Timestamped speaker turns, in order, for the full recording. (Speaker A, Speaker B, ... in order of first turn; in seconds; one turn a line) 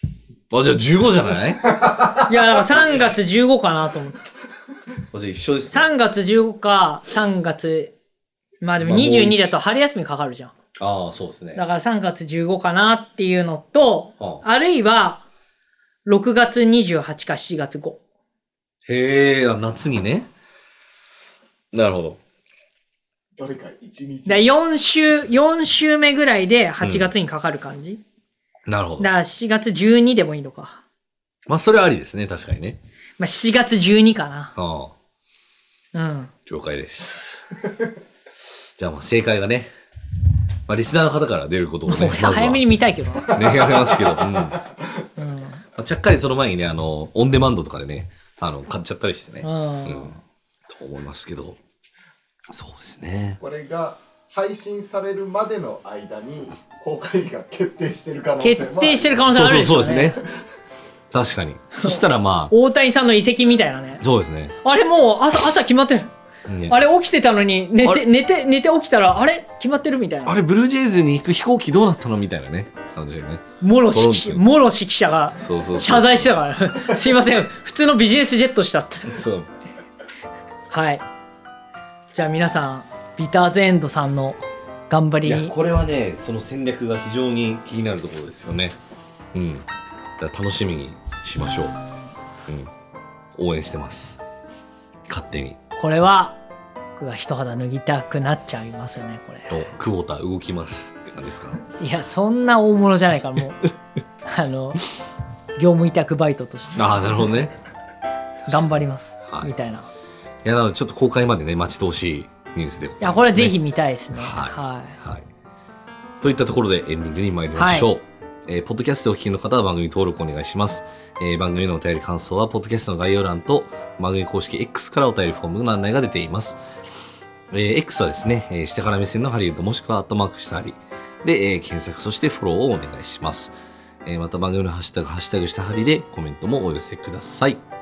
Speaker A: 0.5-2.1
Speaker B: 2.3-4.2
Speaker A: 2.7-3.0
Speaker A: 5.1-5.9
Speaker B: 5.7-7.9
Speaker B: 8.6-10.5
Speaker A: 8.8-9.5
Speaker A: 10.8-11.6
Speaker B: 11.5-15.2
Speaker A: 14.2-14.4
Speaker B: 16.0-18.0
Speaker A: 18.8-20.3
Speaker A: 21.7-22.2
Speaker C: 23.4-24.4
Speaker B: 24.2-28.0
Speaker A: 26.8-27.1
Speaker A: 28.7-29.1
Speaker B: 29.0-30.8
Speaker A: 31.5-32.8
Speaker B: 33.2-34.5
Speaker A: 34.5-34.9
Speaker B: 35.9-36.3
Speaker A: 36.5-37.4
Speaker A: 38.8-39.7
Speaker A: 40.7-42.6
Speaker B: 41.9-43.3
Speaker A: 43.3-44.6
Speaker C: 43.4-44.5
Speaker B: 45.2-45.6
Speaker A: 45.8-50.1
Speaker B: 49.4-50.2
Speaker A: 50.7-51.6
Speaker A: 52.5-53.4
Speaker C: 53.4-59.2
Speaker B: 58.4-60.2
Speaker A: 59.2-60.2
Speaker A: 61.1-62.5
Speaker B: 61.7-64.0
Speaker A: 64.0-64.5
Speaker B: 64.6-66.1
Speaker A: 66.5-66.8
Speaker B: 66.7-70.4
Speaker A: 70.2-74.4
Speaker B: 73.6-79.2
Speaker A: 75.4-76.3
Speaker A: 79.1-79.5
Speaker B: 80.7-81.0
Speaker B: 82.1-85.5
Speaker A: 85.2-88.8
Speaker A: 89.3-89.7
Speaker A: 90.2-91.8
Speaker A: 92.5-92.7
Speaker A: 93.3-94.2
Speaker A: 95.1-95.6
Speaker B: 95.8-96.4
Speaker B: 97.0-99.6
Speaker A: 99.5-101.6
Speaker B: 101.8-103.6
Speaker B: 104.2-104.8
Speaker B: 105.6-107.2
Speaker A: 106.8-107.5
Speaker B: 108.5-109.9
Speaker A: 109.3-109.5
Speaker A: 110.4-113.6
Speaker B: 113.0-115.0
Speaker A: 114.1-115.3
Speaker A: 116.2-126.6
Speaker B: 117.5-117.9
Speaker A: 127.5-137.6